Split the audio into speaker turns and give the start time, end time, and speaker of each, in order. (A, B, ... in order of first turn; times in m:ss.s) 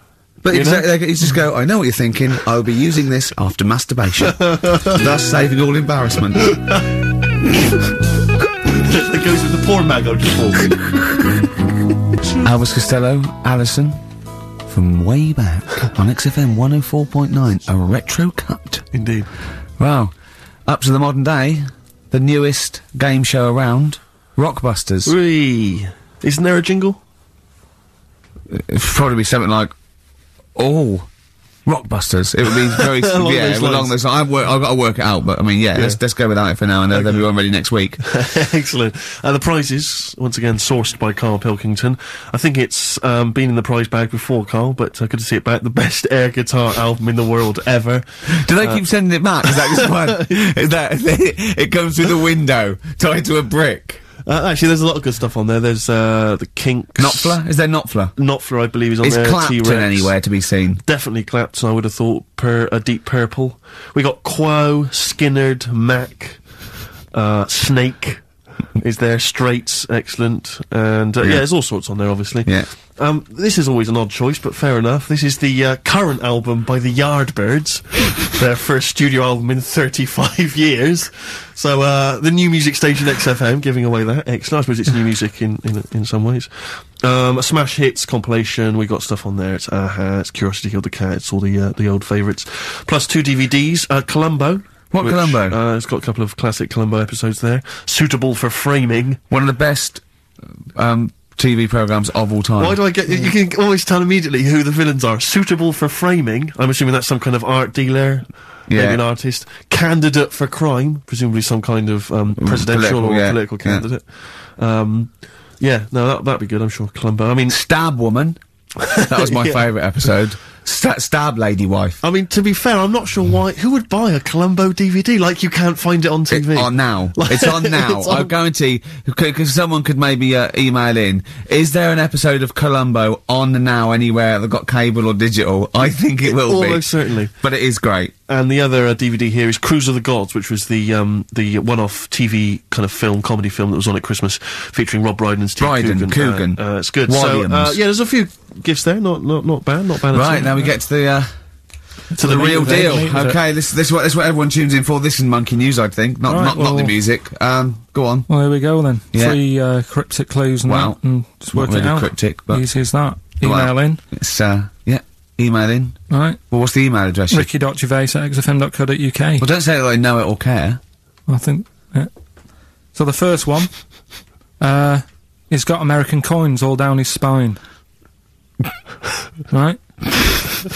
0:00.4-0:06.6 A
0:00.5-0:00.8 B
0:04.2-0:05.0 B
0:06.4-0:07.0 B
0:08.7-0:11.0 B
0:12.4-0:14.0 A
0:14.7-0:18.9 A
0:18.9-0:19.3 B
0:19.8-0:20.1 A
0:20.6-0:25.1 A
0:25.0-0:27.0 B
0:28.5-0:29.7 A
0:30.5-0:31.1 A
0:31.6-0:38.0 A
0:32.7-0:33.9 B
0:36.9-0:37.2 B
0:38.0-0:48.8 B
0:48.4-0:54.0 A
0:49.4-0:50.4 B
0:54.2-0:57.4 B
0:57.0-0:58.1 A
0:58.2-1:00.1 B
0:59.0-1:00.8 A
1:00.8-1:39.2 B
1:11.2-1:11.8 A
1:12.4-1:12.7 A
1:34.9-1:35.6 A
1:39.3-1:40.0 A
1:40.7-1:42.8 A
1:42.6-1:57.6 B
1:48.7-1:49.0 A
1:52.4-1:53.8 A
1:57.5-1:58.4 A
1:58.8-1:59.7 B
1:58.9-2:02.0 A
2:02.0-2:08.3 B
2:06.3-2:18.1 A
2:16.2-2:17.3 B
2:18.3-2:30.6 B
2:25.6-2:27.8 A
2:30.1-2:31.3 A
2:32.1-2:33.1 B
2:32.2-2:33.4 C
2:32.2-2:38.3 A
2:36.3-2:36.9 C
2:38.3-2:44.0 C
2:39.1-2:39.4 A
2:40.6-2:41.0 A
2:41.5-2:42.7 A
2:43.2-2:47.5 A
2:46.1-2:46.4 C
2:47.3-2:49.4 C
2:49.4-2:50.8 A
2:51.3-2:52.1 C
2:52.9-2:57.6 C
2:59.5-3:00.0 C